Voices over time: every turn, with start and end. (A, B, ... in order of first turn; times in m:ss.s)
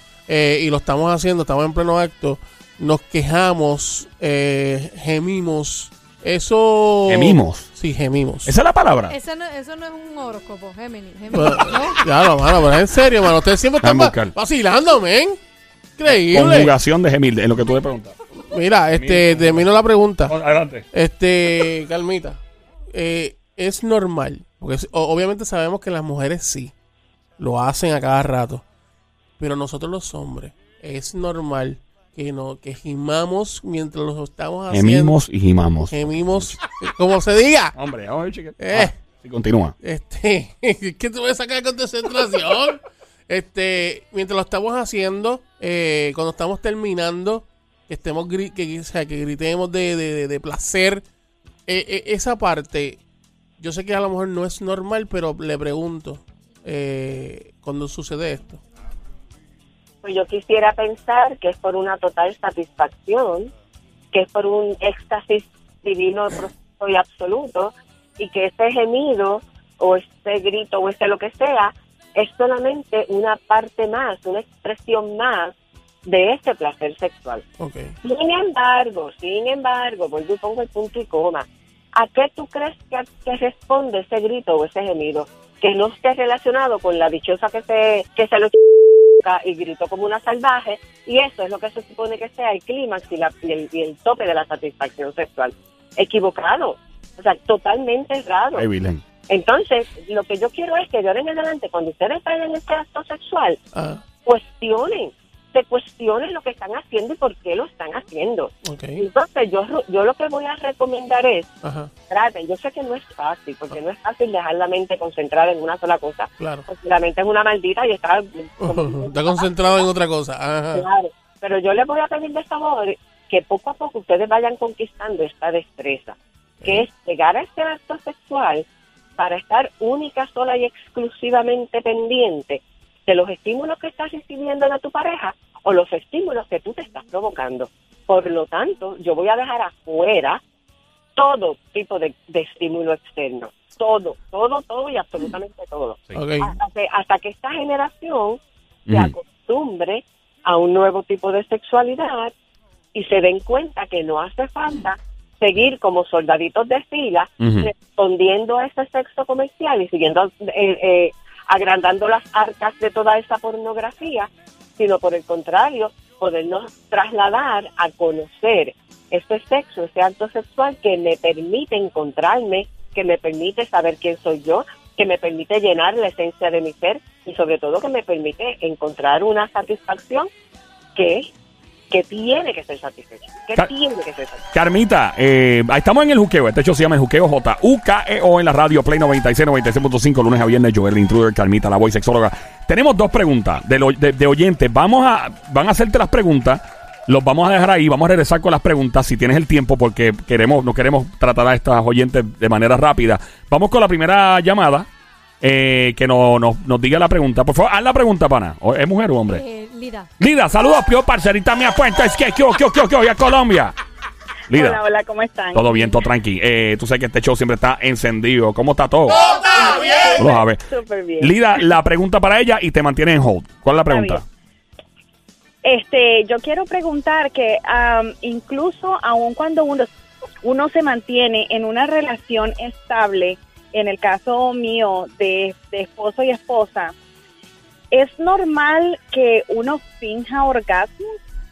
0:00.3-0:08.5 A
0:07.1-0:07.7 B
0:08.4-0:09.2 B
0:09.1-0:12.0 C
0:11.3-0:15.4 A
0:13.8-0:14.3 B
0:16.0-0:16.7 A
0:16.0-0:18.1 B
0:18.5-0:20.3 A
0:18.9-0:19.7 B
0:20.3-0:20.8 B
0:20.9-0:22.4 A
0:22.9-0:26.7 A
0:27.4-0:28.6 A
0:29.4-0:35.2 A
0:34.7-0:36.6 B
0:35.9-0:37.8 A
0:37.7-0:39.7 B
0:38.6-0:38.9 A
0:39.8-0:51.0 A
0:51.7-0:53.0 A
0:53.6-0:58.6 A
1:00.0-1:03.5 D
1:04.1-1:15.5 D
1:16.0-1:17.4 D
1:17.6-1:17.9 A
1:18.0-1:38.6 D
1:38.5-1:39.0 B
1:39.3-1:43.6 D
1:43.7-1:44.0 A
1:44.2-1:51.5 D
1:48.6-1:49.0 A
1:51.6-1:51.9 A
1:52.1-1:59.5 D
1:56.4-1:56.6 A
1:58.6-2:00.8 A
2:00.7-2:08.6 D
2:06.6-2:06.8 A
2:09.2-2:20.4 D
2:21.2-2:32.3 D
2:26.1-2:26.5 A
2:28.9-2:29.1 B
2:32.9-3:00.3 D
2:37.4-2:37.7 B
3:00.9-3:01.3 D
3:01.9-3:04.4 D
3:04.5-3:24.9 B
3:25.4-3:29.4 B
3:29.3-3:30.1 C
3:30.2-3:33.7 B
3:34.5-3:34.8 B
3:34.5-3:36.0 E
3:35.5-3:39.2 B
3:39.3-3:41.4 E
3:40.2-3:40.6 B
3:41.2-3:44.2 B
3:43.9-3:44.2 E
3:45.6-3:49.9 E
3:50.4-3:56.9 E
3:57.9-4:01.2 E